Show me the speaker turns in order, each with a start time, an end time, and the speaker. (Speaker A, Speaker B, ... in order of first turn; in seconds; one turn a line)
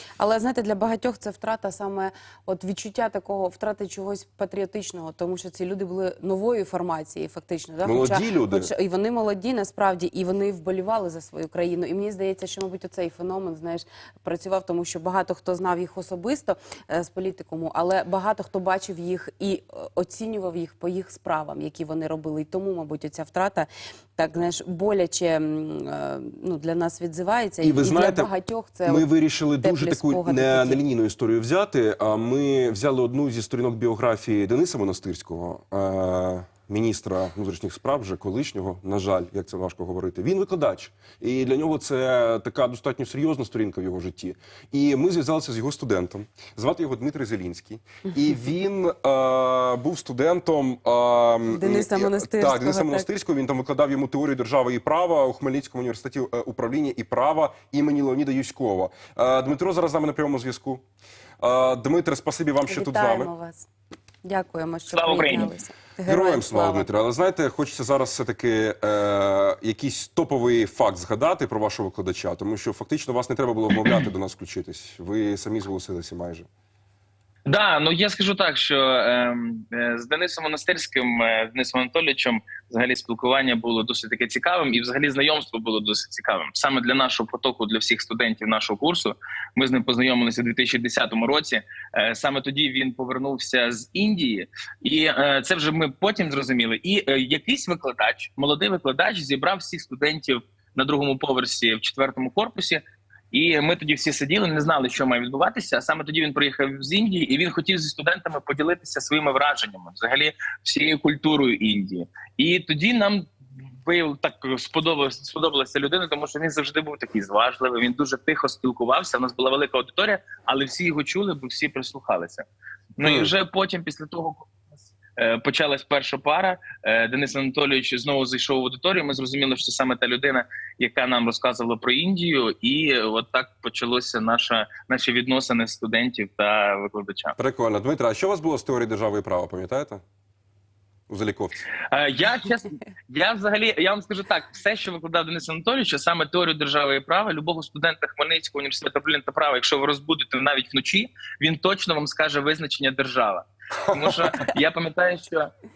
Speaker A: 0.2-30.8
Speaker B: 7.8-8.7
Speaker B: 27.6-28.3
Speaker B: 28.9-60.8
Speaker A: 51.5-53.1
Speaker B: 61.4-63.3
Speaker A: 62.7-63.7
Speaker A: 64.2-66.9
Speaker C: 64.9-65.5
Speaker B: 66.1-76.5
Speaker C: 77.5-113.3
Speaker C: 113.8-122.4
Speaker C: 123.0-124.5
Speaker B: 123.0-123.3
Speaker C: 125.2-137.3
Speaker B: 137.4-140.0
Speaker B: 141.1-141.7
Speaker C: 141.9-155.5